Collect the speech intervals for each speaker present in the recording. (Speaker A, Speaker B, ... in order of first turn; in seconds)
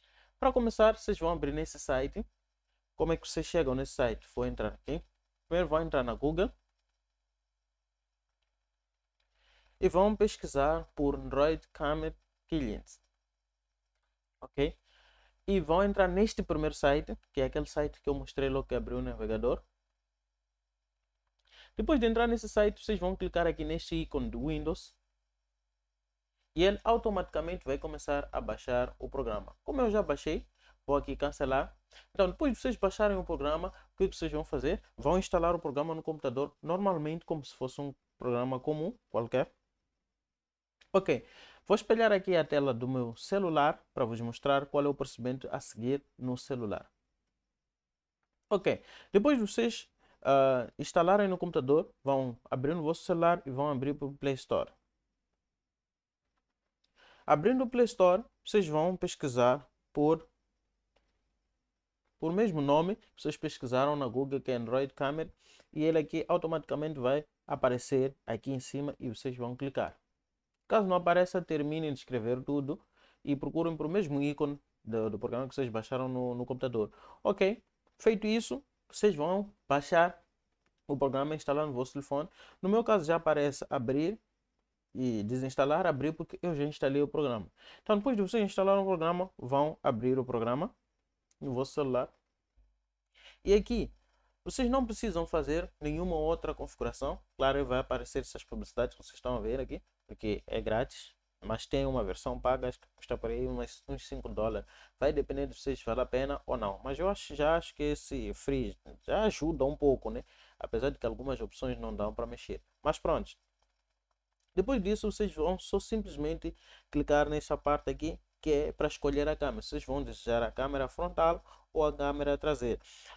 Speaker A: 0.4-2.3, 3.0-6.5, 9.8-13.0, 14.4-14.8, 15.5-19.6, 21.8-25.0, 26.6-39.5, 40.9-46.9, 48.5-54.7, 57.3-60.3, 62.2-70.0, 70.7-80.2, 80.9-84.2, 84.9-90.7, 91.4-92.1, 93.4-93.9, 94.5-113.4, 114.5-122.8